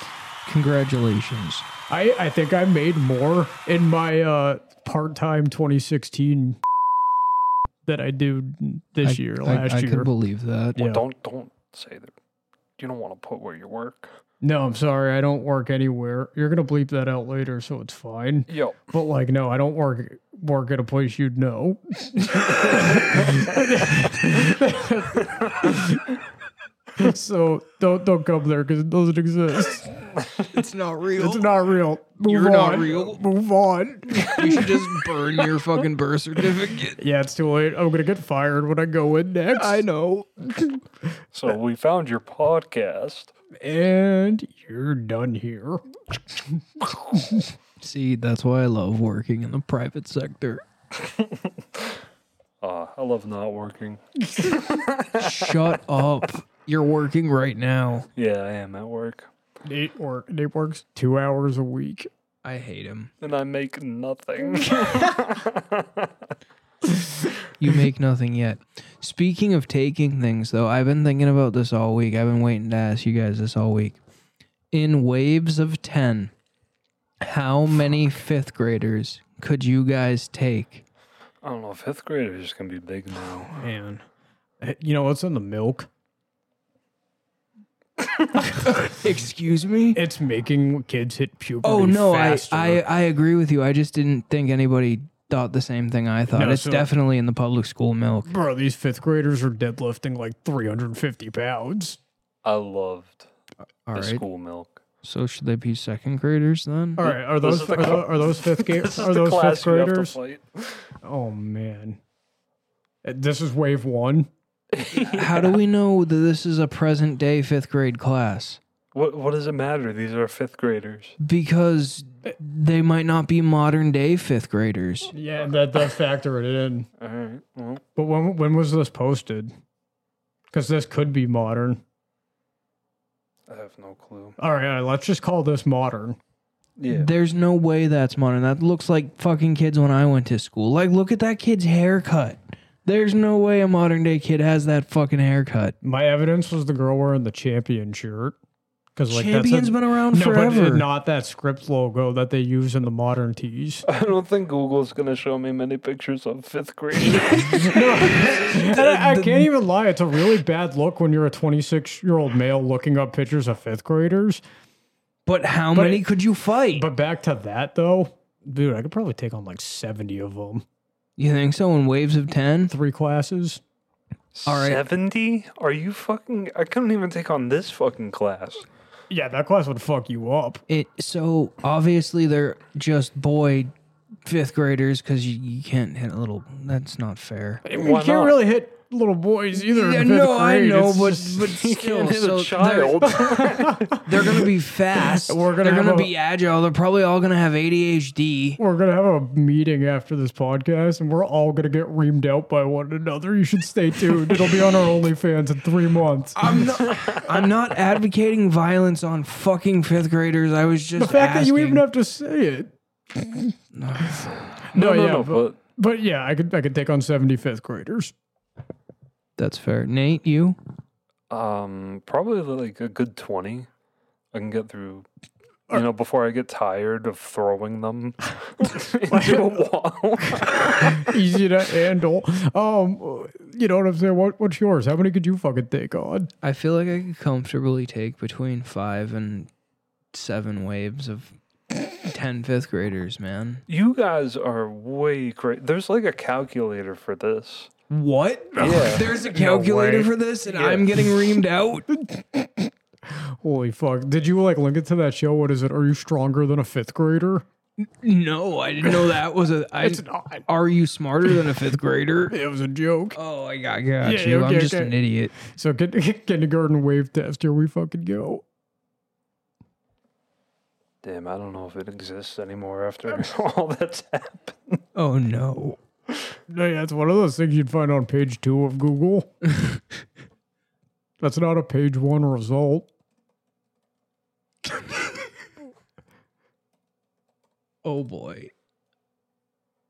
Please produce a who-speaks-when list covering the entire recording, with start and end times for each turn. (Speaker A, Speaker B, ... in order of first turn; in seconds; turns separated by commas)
Speaker A: 0.4-1.6, Speaker B: 1.9-6.6, Speaker B: 7.8-10.1, Speaker A: 9.0-10.8, Speaker C: 10.8-12.1, Speaker B: 10.8-11.0, Speaker C: 12.8-14.1, Speaker B: 14.4-26.1, Speaker C: 18.5-18.9, Speaker C: 22.7-23.4, Speaker B: 26.9-30.0, Speaker A: 30.5-31.5, Speaker B: 31.2-34.7, Speaker A: 32.2-33.2, Speaker A: 34.1-37.0, Speaker B: 37.0-39.8, Speaker A: 39.5-40.6, Speaker C: 41.3-43.3, Speaker B: 43.6-45.8, Speaker B: 46.4-47.5, Speaker A: 47.8-50.6, Speaker C: 51.0-51.9, Speaker C: 52.6-55.7, Speaker B: 54.3-54.6, Speaker A: 55.1-58.1, Speaker C: 58.1-59.3, Speaker B: 59.6-62.1, Speaker A: 62.4-63.1, Speaker C: 63.2-66.1, Speaker A: 67.6-74.0, Speaker A: 74.7-76.3, Speaker A: 77.2-80.8, Speaker C: 81.4-83.5, Speaker B: 83.5-84.0, Speaker B: 84.6-85.9, Speaker A: 88.6-90.0, Speaker B: 89.9-92.8, Speaker A: 91.6-98.3, Speaker B: 96.3-96.9, Speaker B: 98.3-102.0, Speaker C: 102.4-103.3, Speaker A: 103.9-104.2, Speaker C: 103.9-104.8, Speaker A: 105.0-107.1, Speaker B: 107.0-110.2, Speaker C: 107.0-110.9, Speaker B: 111.0-112.0, Speaker B: 113.0-114.3, Speaker C: 114.7-115.6, Speaker A: 114.9-118.6, Speaker C: 118.9-121.2, Speaker A: 121.2-125.1, Speaker B: 125.1-126.9, Speaker C: 127.0-127.8, Speaker B: 128.0-129.5, Speaker B: 130.5-131.8, Speaker C: 133.5-134.3, Speaker B: 134.4-136.2, Speaker C: 136.8-137.1, Speaker A: 136.9-145.8, Speaker B: 145.8-148.4, Speaker B: 148.9-153.8, Speaker A: 149.1-150.9, Speaker C: 153.9-158.2, Speaker A: 157.0-159.5, Speaker B: 157.6-164.4, Speaker A: 165.2-166.9, Speaker B: 165.7-166.0, Speaker B: 166.7-170.6, Speaker A: 171.2-172.7, Speaker B: 172.7-173.6, Speaker C: 174.3-178.7, Speaker A: 174.4-174.8, Speaker B: 179.1-180.6, Speaker A: 180.7-183.7, Speaker A: 184.2-187.6, Speaker B: 187.6-191.5, Speaker C: 187.7-188.4, Speaker A: 189.5-193.2, Speaker C: 191.5-194.0, Speaker B: 193.1-194.4, Speaker A: 194.0-198.6, Speaker B: 194.9-196.1, Speaker B: 198.6-206.7, Speaker A: 206.3-211.8, Speaker C: 206.8-207.5, Speaker B: 211.0-218.1, Speaker A: 213.7-214.3, Speaker C: 214.6-215.6, Speaker A: 219.4-220.6, Speaker C: 221.3-223.7, Speaker C: 224.3-225.1, Speaker C: 225.7-231.2, Speaker B: 229.1-229.6, Speaker B: 230.8-236.3, Speaker A: 236.4-239.5, Speaker A: 240.1-243.6, Speaker C: 243.7-247.7, Speaker A: 247.9-251.8, Speaker C: 248.6-249.2, Speaker B: 248.6-250.1, Speaker C: 250.5-250.8, Speaker B: 251.9-257.4, Speaker A: 257.8-262.4, Speaker B: 259.8-260.5, Speaker B: 262.3-263.2, Speaker A: 263.1-265.3, Speaker B: 264.0-268.4, Speaker C: 271.0-274.8, Speaker A: 274.9-275.8, Speaker B: 276.5-279.3, Speaker B: 281.2-282.9, Speaker A: 287.8-288.5